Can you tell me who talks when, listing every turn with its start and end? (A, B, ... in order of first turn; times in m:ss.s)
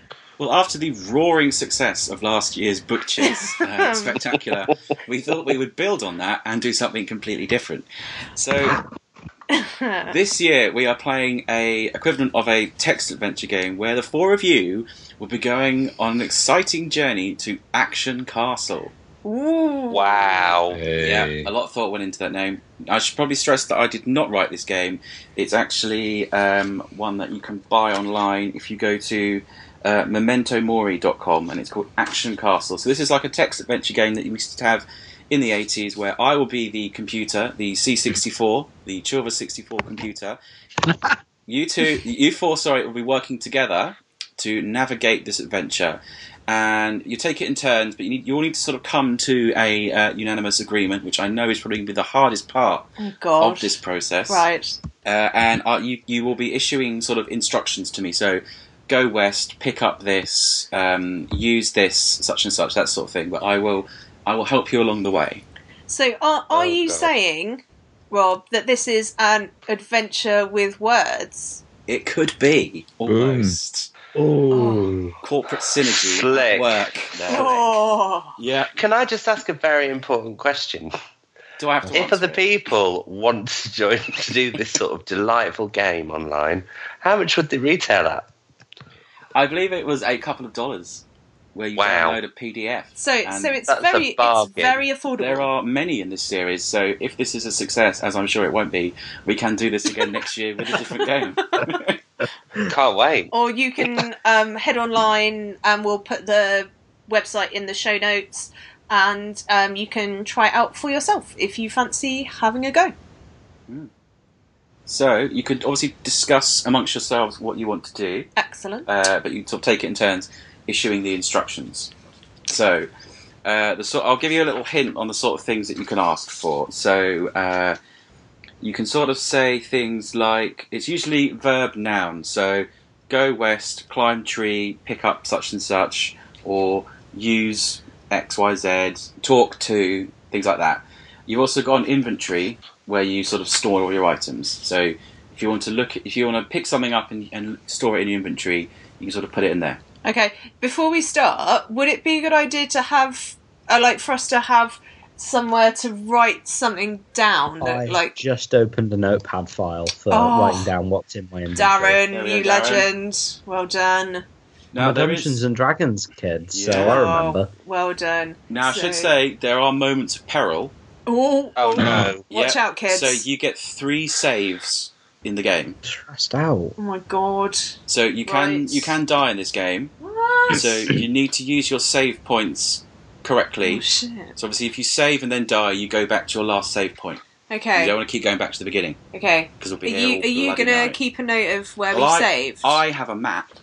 0:00.4-0:08.8 A
0:03.2-0:04.1 B
0:09.5-0:10.1 B
0:10.1-0:18.9 A
0:19.2-0:20.6 B
0:19.9-0:20.8 C
0:20.7-0:21.5 D
0:21.0-0:40.4 A
0:40.8-0:41.2 D
0:41.5-0:54.4 A
0:53.0-0:53.8 B
0:54.3-0:54.8 B
0:55.0-1:05.4 A
1:05.9-1:11.6 B
1:06.5-1:07.1 C
1:11.9-1:13.9 A
1:13.1-1:13.6 D
1:14.1-1:15.2 E
1:14.5-1:14.8 B
1:15.2-1:17.8 A
1:16.0-1:17.5 C
1:17.3-1:18.4 B
1:18.4-1:18.7 A
1:18.8-1:20.9 C
1:21.6-1:22.4 A
1:21.9-1:28.3 C
1:29.3-1:31.0 A
1:31.5-1:33.6 A
1:31.8-1:32.2 C
1:33.0-1:35.5 B
1:33.7-1:34.8 C
1:35.2-1:42.0 A
1:42.6-1:43.3 C
1:43.3-1:52.9 B
1:54.9-1:58.3 A
1:58.4-1:58.9 B
1:58.8-2:01.9 A
2:02.5-2:02.9 A
2:03.4-2:07.8 A
2:08.6-2:29.8 A
2:30.0-2:38.2 B
2:37.6-2:42.0 E
2:40.1-2:40.7 B
2:41.5-2:44.2 B
2:42.1-2:42.9 A
2:44.7-2:45.4 A
2:44.8-2:47.5 E
2:46.5-2:47.0 A
2:46.7-2:49.1 B
2:48.5-2:50.7 A
2:51.0-2:53.2 B
2:51.6-2:52.2 C
2:51.8-2:52.1 D
2:51.9-2:55.8 A
2:55.8-2:56.8 E
2:56.8-2:59.0 B
2:57.9-2:59.9 A
3:00.0-3:00.7 B
3:00.5-3:07.2 A
3:03.6-3:04.3 B
3:07.5-3:08.0 B
3:07.8-3:09.0 A
3:09.1-3:12.8 B
3:09.6-3:11.0 A
3:11.9-3:13.5 A